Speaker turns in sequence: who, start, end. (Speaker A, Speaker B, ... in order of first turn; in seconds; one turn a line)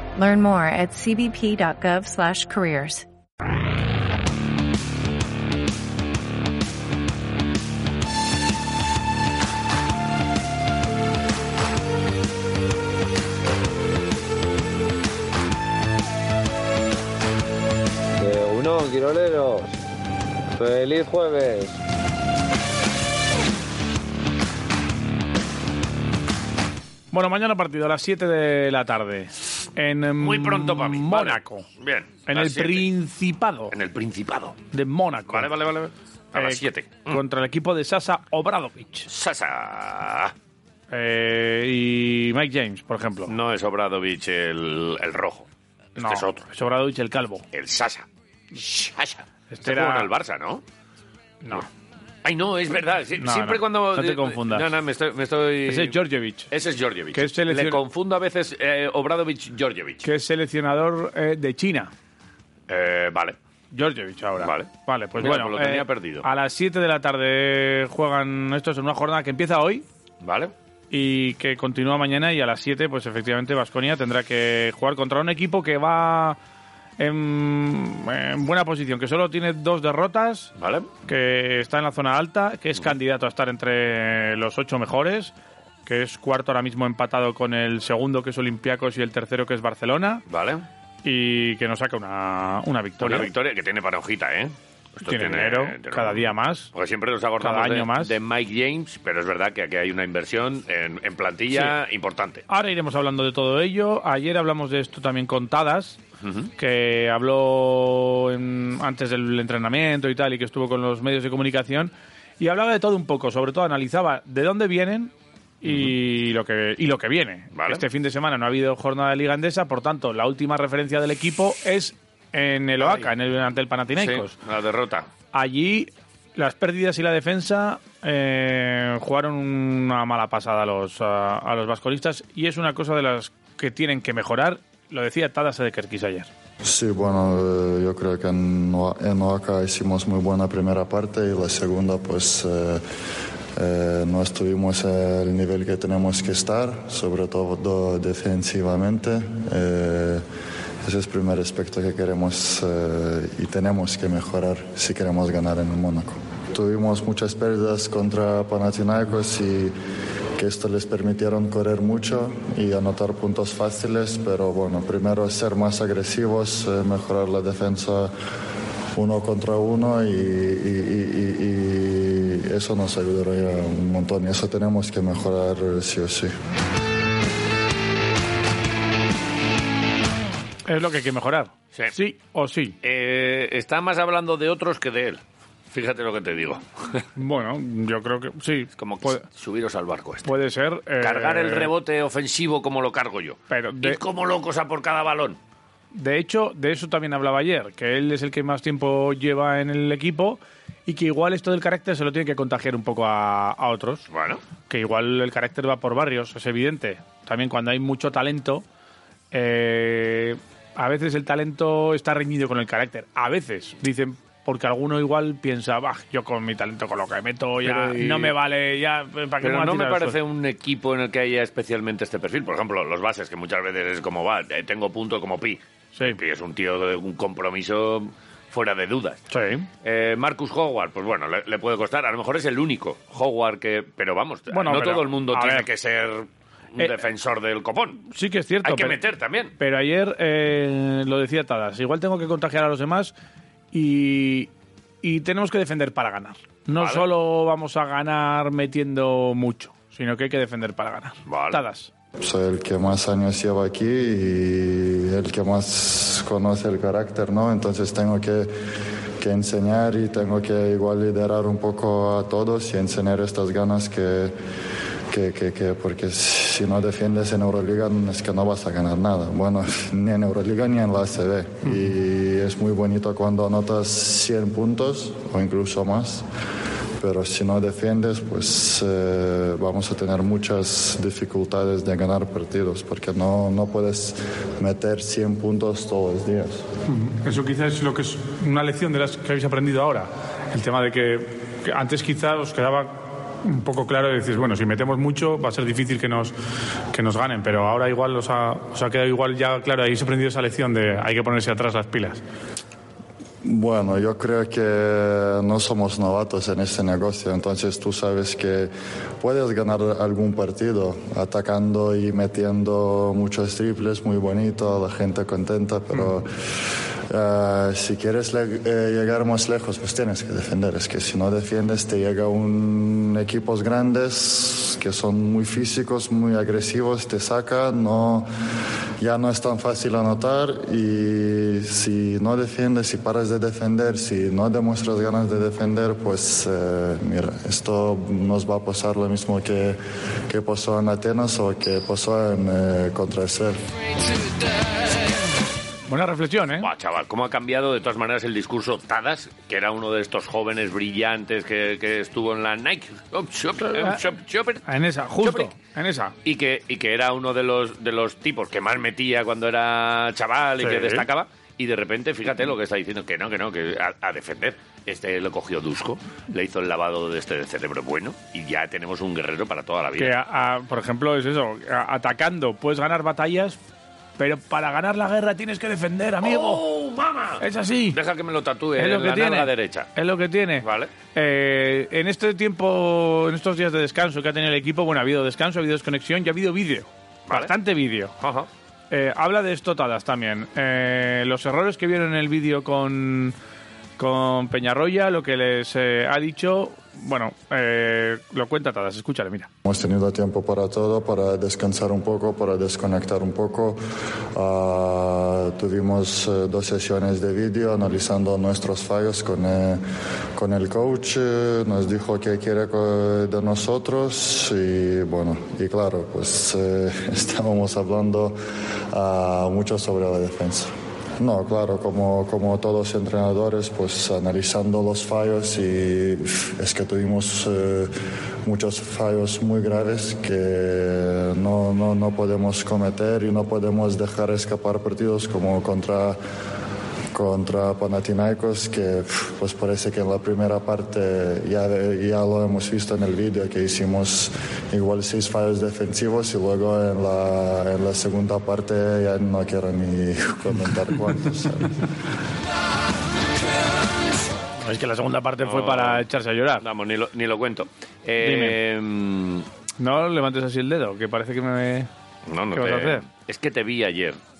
Speaker A: 0.1-3.0
Speaker B: 18.2-19.8
Speaker B: 20.6-21.8
Speaker C: 27.1-31.6
Speaker D: 30.2-32.9
Speaker C: 32.3-33.7
Speaker D: 33.7-34.6
Speaker C: 34.7-35.5
Speaker D: 35.3-37.2
Speaker C: 36.4-39.1
Speaker D: 39.1-40.3
Speaker C: 40.9-43.3
Speaker D: 43.3-45.5
Speaker D: 46.0-46.4
Speaker C: 46.0-47.5
Speaker D: 47.5-50.6
Speaker C: 49.5-50.1
Speaker D: 52.2-56.0
Speaker C: 53.2-54.7
Speaker C: 55.7-56.5
Speaker D: 56.5-60.0
Speaker C: 57.1-57.8
Speaker C: 60.0-61.9
Speaker D: 62.7-63.4
Speaker C: 63.7-69.8
Speaker D: 64.4-66.2
Speaker D: 70.2-70.5
Speaker C: 70.9-76.4
Speaker C: 77.0-80.5
Speaker D: 80.6-80.9
Speaker C: 81.0-85.3
Speaker C: 85.8-90.2
Speaker D: 90.3-90.7
Speaker C: 91.0-93.3
Speaker D: 93.0-102.4
Speaker C: 95.0-96.7
Speaker C: 97.4-98.1
Speaker C: 101.5-101.8
Speaker C: 102.5-106.0
Speaker D: 106.2-106.5
Speaker C: 106.6-124.3
Speaker D: 115.7-115.9
Speaker D: 117.5-117.8
Speaker D: 122.8-123.0
Speaker D: 124.0-125.1
Speaker C: 125.3-136.3
Speaker E: 136.6-142.8
Speaker E: 143.6-150.2
Speaker E: 150.8-159.7
Speaker E: 160.4-168.1
Speaker E: 168.9-176.3
Speaker C: 180.7-182.8
Speaker D: 182.8-187.1
Speaker C: 187.2-189.2
Speaker D: 188.8-190.3
Speaker C: 190.2-191.7
Speaker D: 191.0-195.4
Speaker C: 193.5-194.0
Speaker C: 195.9-204.0
Speaker D: 204.1-204.4
Speaker C: 204.7-208.6
Speaker C: 209.3-220.2
Speaker D: 217.6-218.3
Speaker D: 219.4-229.2
Speaker C: 229.3-229.7
Speaker D: 229.8-238.0
Speaker C: 234.5-235.7
Speaker C: 238.1-239.0
Speaker D: 238.6-239.5
Speaker C: 239.6-243.1
Speaker C: 243.7-244.5
Speaker C: 245.0-251.9
Speaker D: 246.8-247.0
Speaker D: 251.3-251.6
Speaker E: 252.2-258.6
Speaker E: 259.2-264.3
Speaker E: 265.1-276.2
Speaker E: 277.0-286.6
Speaker C: 286.9-296.3
Speaker C: 296.9-302.2
Speaker E: 303.4-328.3
Speaker E: 329.0-343.6
Speaker C: 345.9-346.7
Speaker D: 346.6-354.6
Speaker C: 354.6-356.1
Speaker D: 355.2-355.5
Speaker D: 356.2-370.1
Speaker C: 360.6-361.0
Speaker C: 370.0-373.6
Speaker C: 374.2-376.6
Speaker D: 376.2-379.9
Speaker C: 377.4-378.0
Speaker C: 378.8-388.1
Speaker D: 380.6-380.9
Speaker D: 387.3-387.5
Speaker D: 388.2-388.5
Speaker C: 388.9-393.3
Speaker C: 394.0-399.5
Speaker E: 399.6-403.8
Speaker E: 404.3-409.8
Speaker E: 410.4-418.4
Speaker E: 418.9-427.9
Speaker E: 428.4-436.2
Speaker E: 437.1-451.9
Speaker C: 454.6-456.6
Speaker D: 455.4-456.1
Speaker D: 456.6-459.5
Speaker C: 458.2-458.6
Speaker C: 459.8-461.9
Speaker D: 462.2-464.2
Speaker C: 462.5-463.0